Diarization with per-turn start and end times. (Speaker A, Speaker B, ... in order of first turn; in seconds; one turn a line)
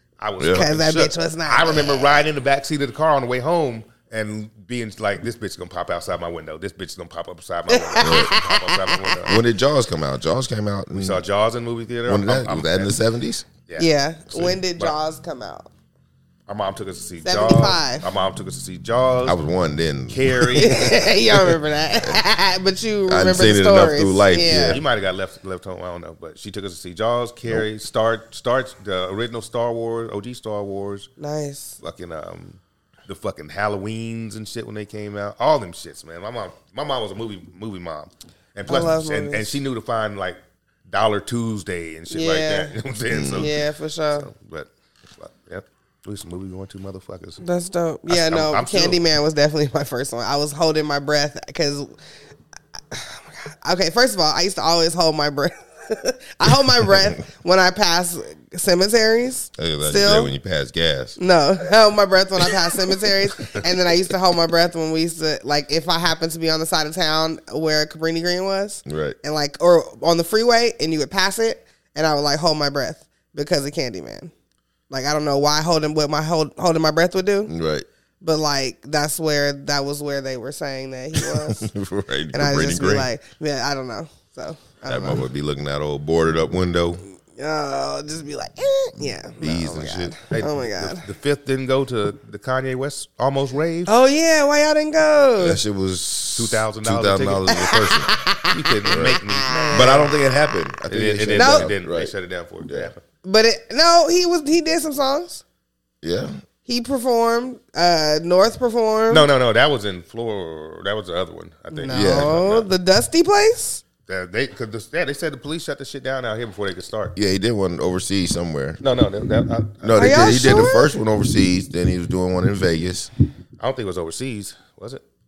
Speaker A: 0.2-9.4
Speaker B: 0.4-0.7
Speaker C: 0.5-2.0
Speaker C: 7.7-8.9
Speaker B: 8.0-8.4
Speaker B: 9.2-11.2
Speaker A: 10.9-12.9
Speaker B: 12.1-13.4
Speaker A: 13.7-14.9
Speaker C: 13.8-15.7
Speaker A: 16.5-19.4
Speaker C: 17.2-18.0
Speaker B: 19.2-21.0
Speaker A: 20.1-21.0
Speaker C: 20.5-24.8
Speaker B: 23.1-24.8
Speaker A: 24.7-31.1
Speaker C: 31.2-31.8
Speaker A: 31.8-47.4
Speaker C: 38.7-39.6
Speaker C: 42.1-42.7
Speaker B: 43.1-43.5
Speaker C: 43.3-44.3
Speaker C: 47.4-51.9
Speaker A: 48.1-49.0
Speaker C: 52.9-60.3
Speaker B: 59.6-61.2
Speaker C: 61.2-74.3
Speaker B: 68.8-69.2
Speaker C: 74.9-77.5
Speaker B: 77.5-77.9
Speaker C: 78.2-81.7
Speaker B: 81.1-83.1
Speaker C: 82.3-85.3
Speaker B: 84.8-87.0
Speaker C: 87.3-91.0
Speaker B: 89.0-90.2
Speaker A: 90.2-93.9
Speaker C: 93.9-95.6
Speaker B: 95.4-98.1
Speaker A: 96.3-97.8
Speaker C: 97.6-98.5
Speaker A: 98.5-100.1
Speaker B: 98.8-102.9
Speaker C: 99.4-100.1
Speaker A: 100.9-103.0
Speaker C: 101.3-101.7
Speaker C: 103.2-105.4
Speaker B: 106.0-106.4
Speaker C: 106.7-109.3
Speaker A: 109.1-112.7
Speaker C: 111.7-113.8
Speaker B: 111.9-112.4
Speaker A: 114.1-117.1
Speaker B: 117.1-118.8
Speaker A: 118.8-120.7
Speaker B: 119.8-123.1
Speaker C: 120.0-120.9
Speaker A: 123.6-125.0